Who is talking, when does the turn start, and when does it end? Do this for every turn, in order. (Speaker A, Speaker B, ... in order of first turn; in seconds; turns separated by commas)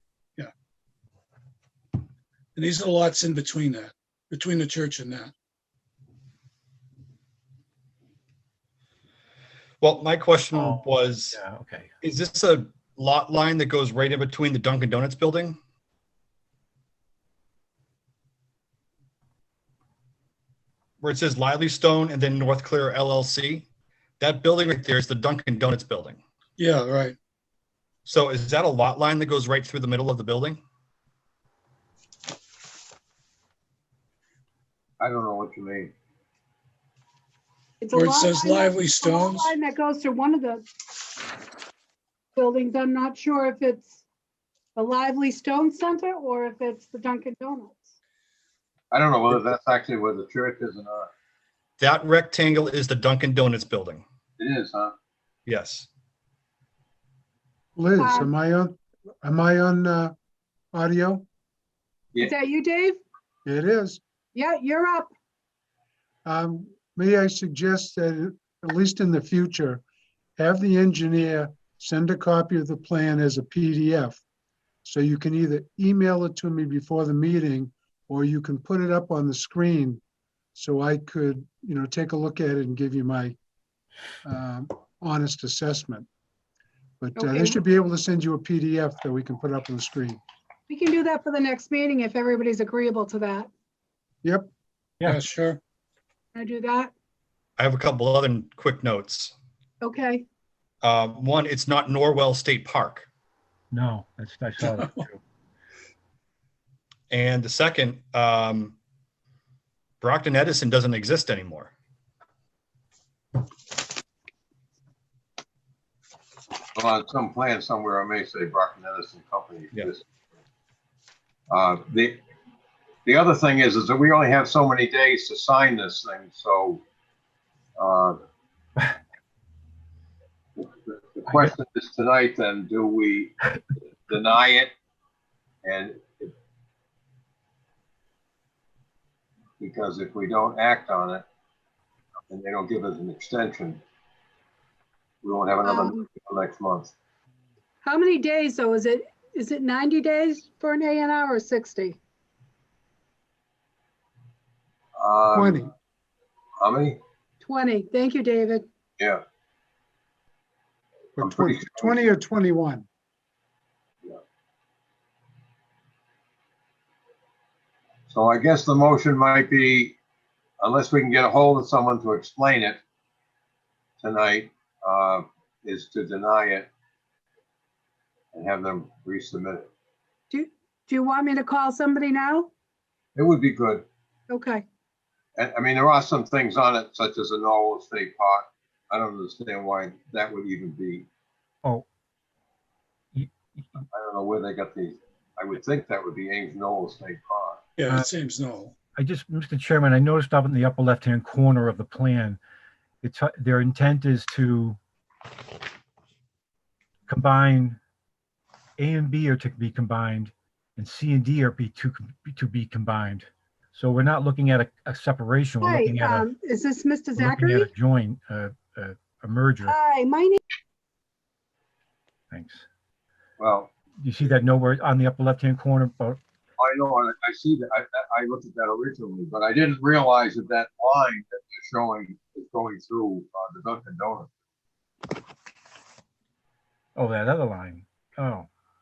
Speaker A: 2.6-5.3, Speaker B: 9.8-11.4, Speaker C: 10.5-11.9, Speaker B: 12.0-15.6, Speaker B: 21.0-23.7, Speaker B: 24.2-26.2, Speaker A: 26.6-27.2, Speaker B: 28.1-30.6, Speaker D: 35.0-35.9, Speaker E: 37.8-40.6, Speaker A: 37.9-39.5, Speaker E: 42.4-44.0, Speaker E: 44.8-47.9, Speaker D: 48.9-51.1, Speaker B: 51.8-54.0, Speaker D: 54.4-54.9, Speaker B: 55.5-55.9, Speaker F: 57.8-60.1, Speaker E: 58.0-58.3, Speaker F: 60.7-61.2, Speaker E: 62.2-63.0, Speaker F: 63.5-64.0, Speaker E: 64.3-65.1, Speaker F: 66.2-69.8, Speaker F: 70.4-74.2, Speaker F: 74.8-80.0, Speaker F: 80.5-83.4, Speaker F: 84.2-86.1, Speaker F: 87.0-90.2, Speaker E: 87.2-87.6, Speaker E: 90.7-93.5, Speaker F: 94.2-94.5, Speaker A: 95.0-95.6, Speaker E: 96.3-96.9, Speaker B: 97.6-99.3, Speaker E: 99.8-100.3, Speaker B: 100.8-103.1, Speaker C: 103.7-105.2, Speaker A: 104.6-105.0, Speaker B: 107.1-108.8, Speaker B: 110.0-111.7, Speaker D: 116.8-120.0, Speaker D: 121.5-122.2, Speaker D: 123.1-126.8, Speaker D: 127.8-128.2, Speaker D: 130.6-133.4, Speaker D: 134.1-134.7, Speaker D: 135.6-136.3, Speaker D: 139.6-141.2, Speaker D: 142.3-143.8, Speaker D: 145.2-146.9, Speaker E: 145.6-146.1, Speaker E: 147.8-152.0, Speaker D: 155.0-155.6, Speaker F: 155.3-155.7, Speaker D: 156.6-157.0, Speaker E: 157.4-158.7, Speaker F: 161.2-162.9, Speaker D: 161.2-162.1, Speaker D: 168.1-170.0, Speaker D: 170.6-172.8, Speaker D: 174.0-176.7, Speaker D: 178.3-179.7, Speaker E: 180.3-182.5, Speaker D: 183.2-183.8, Speaker E: 184.3-184.6, Speaker D: 185.4-191.1, Speaker C: 193.2-193.8, Speaker D: 193.9-197.6, Speaker A: 197.8-198.7, Speaker C: 199.0-202.4, Speaker C: 203.0-204.8, Speaker C: 207.1-207.8, Speaker C: 208.8-216.3, Speaker E: 215.6-217.7, Speaker C: 217.2-219.8, Speaker E: 219.7-220.4, Speaker C: 222.3-222.7, Speaker D: 223.4-223.7, Speaker C: 224.0-226.2, Speaker D: 226.6-234.3, Speaker C: 237.0-238.5